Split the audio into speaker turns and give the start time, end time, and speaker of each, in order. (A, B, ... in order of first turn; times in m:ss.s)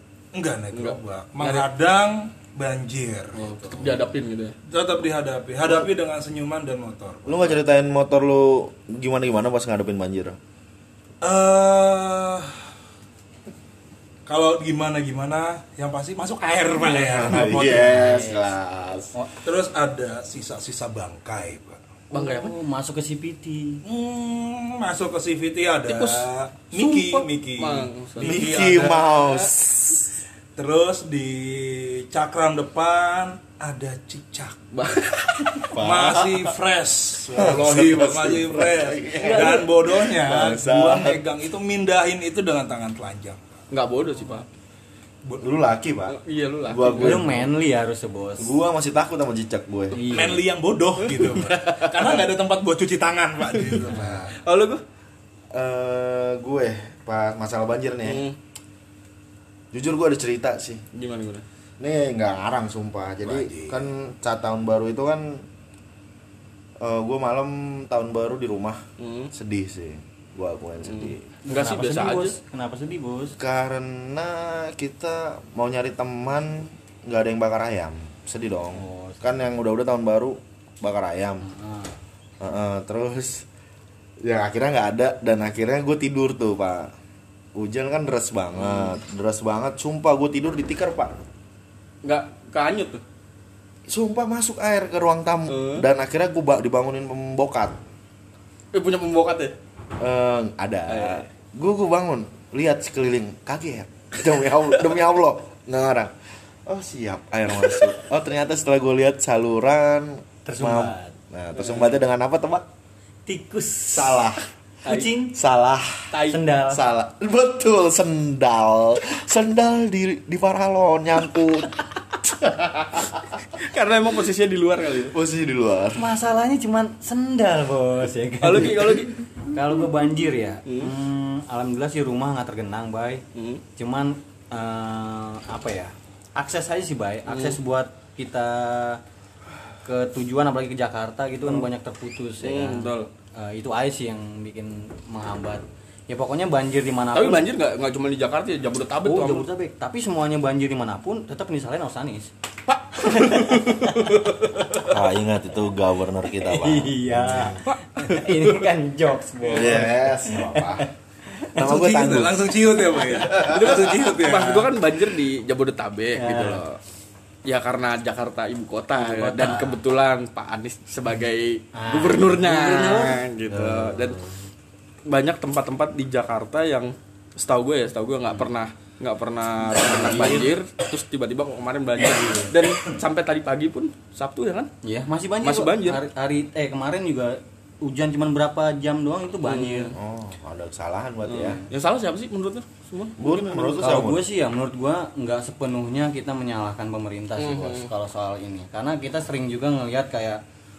0:00.3-0:04.0 A
0:00.7-0:01.7 B
0:03.4-0:04.6 B
0:04.7-0:07.6 A
0:07.3-0:10.4 C
0:11.2-0:12.6 A
0:14.3-0:18.2 A
0:17.2-0:19.1 C
0:17.7-0:18.5 D
0:19.4-0:21.8 A
0:22.1-0:22.6 B
0:22.1-0:23.8 D
0:23.8-0:29.2 A
0:25.9-0:28.5 B
0:28.2-0:30.2 C
0:30.6-0:43.6 A
0:34.7-0:35.6 B
0:35.6-0:36.6 C
0:37.3-0:41.2 C
0:39.2-0:39.6 D
0:43.7-0:44.5 B
0:45.4-0:47.4 C
0:46.1-0:47.4 B
0:47.0-0:48.6 D
0:48.4-0:50.0 C
0:49.9-0:50.4 D
0:50.0-0:54.4 A
0:51.0-0:52.1 B
0:53.6-0:54.8 B
0:55.5-0:58.2 C
0:58.0-0:58.4 B
0:59.7-1:00.8 C
1:00.9-1:01.4 B
1:01.8-1:05.4 C
1:03.2-1:03.8 A
1:06.8-1:11.2 C
1:09.0-1:09.3 B
1:10.8-1:12.4 B
1:11.4-1:13.4 D
1:13.4-1:21.4 C
1:18.7-1:19.4 D
1:21.4-1:21.9 D
1:22.4-1:23.4 C
1:24.2-1:26.9 C
1:27.6-1:31.1 C
1:28.6-1:29.0 B
1:32.0-1:33.0 B
1:33.9-1:37.8 C
1:35.5-1:35.8 B
1:38.7-1:39.6 B
1:40.0-1:46.1 C
1:40.9-1:41.2 B
1:46.7-1:52.7 C
1:50.5-1:51.2 D
1:51.6-1:52.0 B
1:53.3-1:54.2 D
1:53.9-1:54.4 C
1:54.8-1:55.4 D
1:54.9-1:55.1 B
1:55.3-2:01.7 C
1:56.1-1:56.4 B
1:56.3-1:56.8 D
2:02.4-2:03.1 C
2:03.5-2:05.2 B
2:05.1-2:06.1 C
2:06.0-2:13.2 D
2:08.4-2:09.1 B
2:10.7-2:10.9 B
2:13.4-2:13.6 B
2:13.8-2:19.0 D
2:17.3-2:17.6 B
2:19.8-2:27.5 D
2:22.4-2:23.1 B
2:27.1-2:29.5 B
2:29.0-2:32.3 D
2:32.7-2:35.0 B
2:33.0-2:34.3 D
2:34.9-2:37.6 C
2:36.4-2:41.6 D
2:37.7-2:38.7 B
2:39.4-2:39.8 B
2:39.5-2:40.9 C
2:41.6-2:42.5 C
2:41.6-2:44.7 A
2:43.2-2:46.8 B
2:46.2-2:46.6 D
2:47.4-2:54.2 B
2:49.0-2:49.8 D
2:51.7-2:53.2 D
2:53.5-2:54.4 C
2:55.1-3:04.7 B
2:59.8-3:00.5 D
2:59.9-3:00.4 C
3:02.1-3:02.5 D
3:04.8-3:10.0 D
3:05.4-3:06.0 B
3:09.4-3:10.0 B
3:10.0-3:11.6 C
3:11.3-3:13.8 B
3:11.4-3:11.7 D
3:13.2-3:14.3 C
3:13.8-3:20.4 D
3:17.4-3:17.9 B